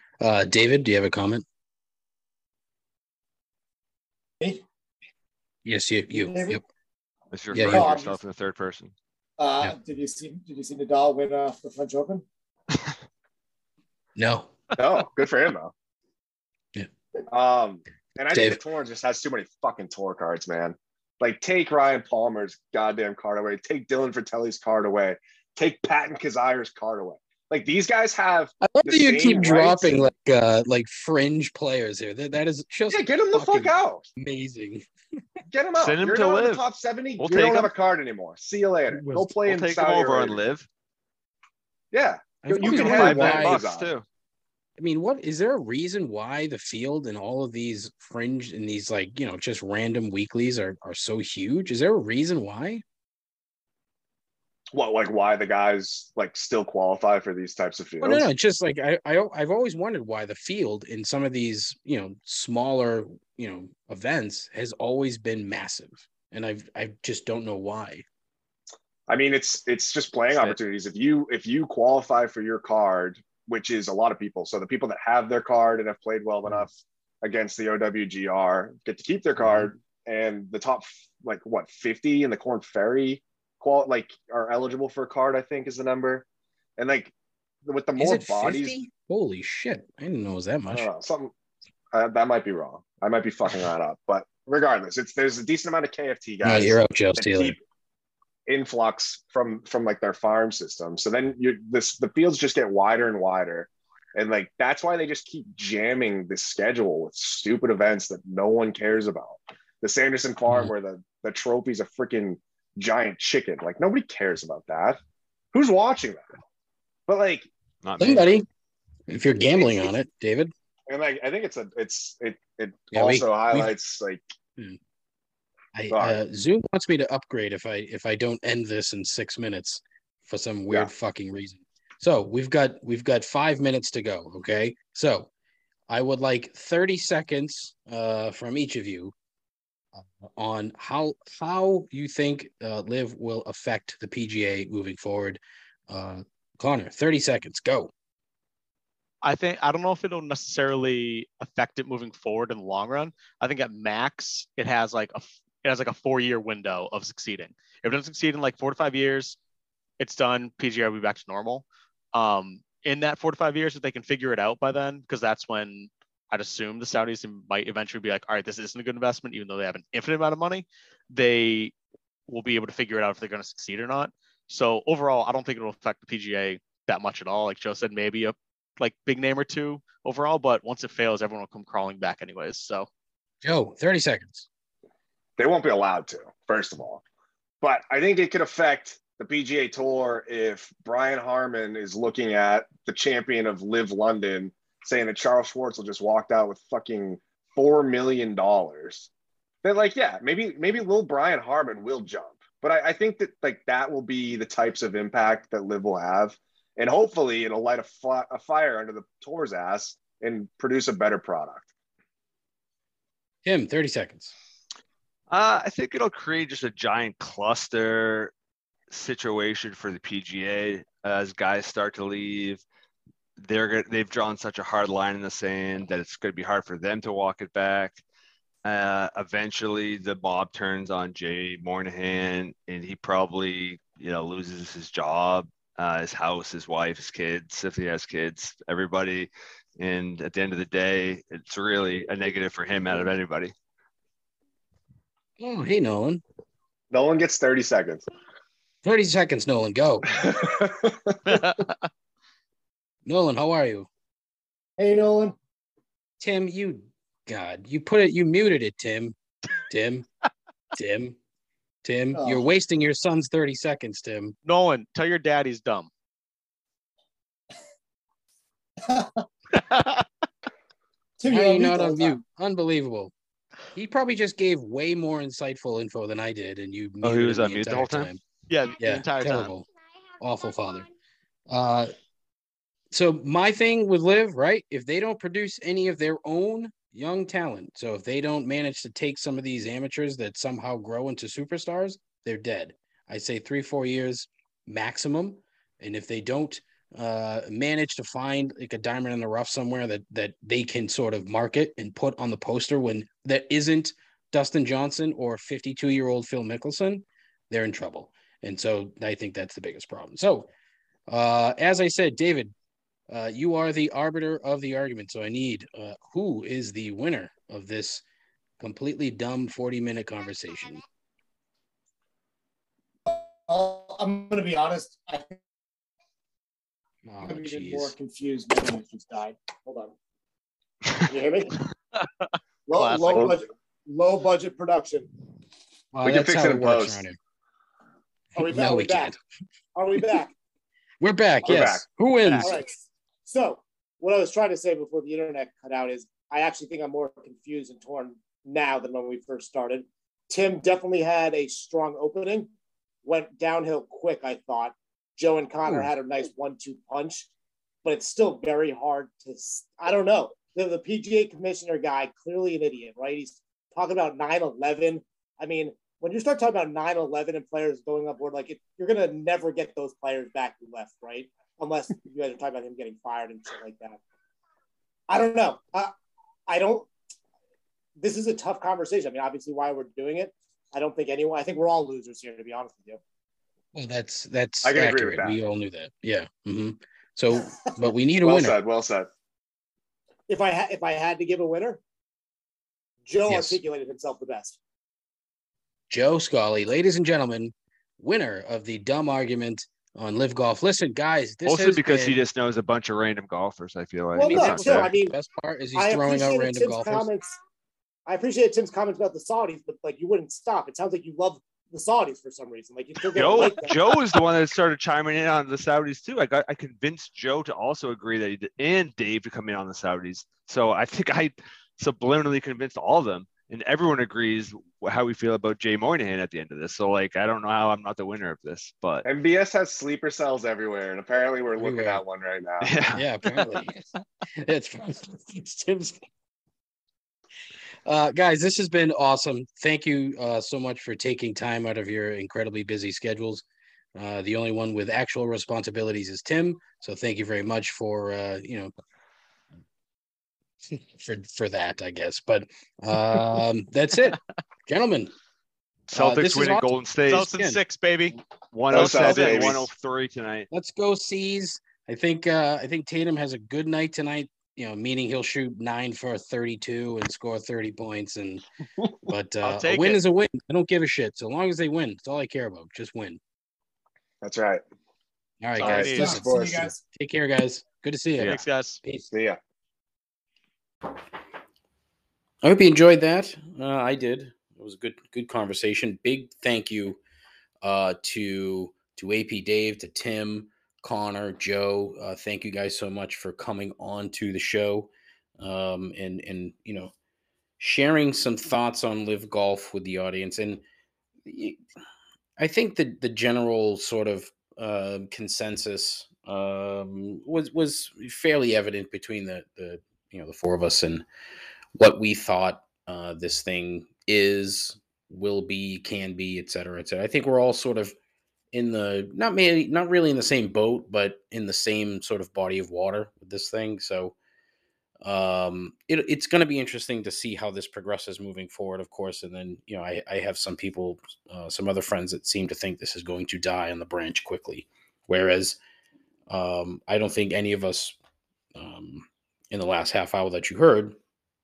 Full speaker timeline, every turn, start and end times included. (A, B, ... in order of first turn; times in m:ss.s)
0:00.2-0:01.4 A
0:05.6-0:06.6 A
0:06.1-0:06.6 B
0:07.3-0:08.9 C
0:07.5-0:07.9 A
0:07.5-0:08.2 B
0:09.4-0:12.2 B
0:14.2-0:14.5 A
0:14.8-0:15.7 D
0:17.3-0:30.1 D
0:18.3-0:18.6 A
0:28.6-0:34.9 A
0:32.9-0:34.1 D
0:35.5-0:40.4 D
0:35.8-0:36.6 C
0:37.2-0:37.7 C
0:38.9-0:39.3 A
0:39.4-0:40.7 C
0:41.9-0:43.9 D
0:42.4-0:43.6 A
0:42.6-0:44.0 C
0:44.8-0:52.8 A
0:54.7-0:58.3 D
0:58.0-1:08.0 A
1:09.1-1:26.2 D
1:10.3-1:10.6 C
1:26.8-1:27.1 D
1:27.6-1:28.8 D
1:28.0-1:30.9 A
1:30.7-1:31.3 D
1:31.9-1:37.6 D
1:36.4-1:37.6 A
1:38.5-1:55.0 D
1:55.5-1:56.3 D
1:57.1-1:57.5 D
1:57.8-1:58.3 C
1:58.0-1:58.5 A
1:59.1-2:00.5 A
1:59.6-1:59.9 D
2:00.9-2:04.2 D
2:02.9-2:03.7 A
2:05.8-2:15.3 A
2:05.9-2:06.2 D
2:15.9-2:19.1 A
2:20.0-2:27.9 A
2:29.2-2:39.4 E
2:40.0-2:51.7 E
2:52.3-3:02.9 E
3:03.4-3:04.5 A
3:05.4-3:07.0 D
3:07.6-3:19.1 D
3:19.6-3:31.7 D
3:33.4-3:34.3 A
3:35.3-3:38.3 C
3:38.9-3:42.6 C
3:43.4-3:48.0 C
3:48.6-4:03.5 C
4:05.4-4:06.2 A
4:06.9-4:08.0 D
4:08.8-4:10.1 A
4:10.1-4:11.4 D
4:11.2-4:11.8 E
4:13.1-4:13.9 A
4:14.8-4:15.4 B
4:16.2-4:19.2 A
4:19.7-4:20.1 A
4:20.7-4:21.2 A
4:21.8-4:24.4 A
4:22.2-4:22.5 B
4:24.4-4:25.9 E
4:28.8-4:29.3 B
4:29.5-4:30.1 E
4:31.2-4:32.2 B
4:31.3-4:33.1 A
4:33.7-4:38.2 A
4:37.0-4:38.1 C
4:38.5-4:39.5 E
4:38.8-4:39.7 A
4:40.2-4:40.9 A
4:41.5-4:41.9 A
4:42.9-5:10.5 A
5:11.1-5:12.5 A
5:13.1-5:18.0 A
5:18.6-5:20.8 A
5:23.1-5:25.4 B
5:27.1-5:27.9 A
5:27.2-5:30.0 B
5:31.1-5:31.6 B
5:32.0-5:33.3 E
5:32.7-5:35.1 B
5:35.9-5:37.2 A
5:36.0-5:37.0 D
5:38.4-5:39.2 B
5:38.4-5:39.2 A
5:39.8-5:40.3 B
5:41.0-5:42.6 A
5:41.4-5:41.8 D
5:42.4-5:52.5 B
5:53.0-5:57.3 B
5:57.8-6:14.0 B
6:15.1-6:15.9 B
6:16.5-6:16.9 B
6:18.0-6:23.0 B
6:23.7-6:28.6 A
6:24.6-6:25.4 D
6:28.2-6:29.1 D
6:30.3-6:31.8 B
6:33.1-6:34.6 B
6:33.3-6:33.6 A
6:35.9-6:42.2 A
6:41.4-6:44.9 C
6:44.1-6:45.2 B
6:44.2-6:47.1 A
6:45.8-6:47.4 B
6:48.1-6:53.8 B
6:53.1-7:09.0 C
7:09.0-7:12.7 D
7:11.6-7:12.0 A
7:12.6-7:13.0 C
7:12.9-7:16.0 A
7:13.3-7:13.7 E
7:17.9-7:28.7 A
7:30.7-7:35.1 A
7:35.9-7:37.3 C
7:36.0-7:36.7 A
7:37.1-7:38.2 E
7:37.2-7:37.6 A
7:38.5-7:40.5 C
7:38.7-7:39.7 D
7:38.7-7:39.6 E
7:40.5-7:48.4 A
7:49.1-7:53.2 A
7:49.4-7:50.0 E
7:54.2-7:54.6 D
7:55.4-7:59.1 A
7:55.6-7:56.2 E
7:55.6-7:56.7 D
7:55.6-7:56.8 B
7:58.2-7:58.8 E
7:59.1-7:59.4 D
8:02.4-8:07.0 A
8:07.6-8:16.9 A
8:17.6-8:20.6 A
8:21.3-8:21.6 A
8:22.4-8:31.0 A
8:31.8-8:37.9 A
8:38.5-8:44.2 A
8:45.0-8:55.6 A
8:56.3-8:58.0 A
8:58.6-9:01.0 A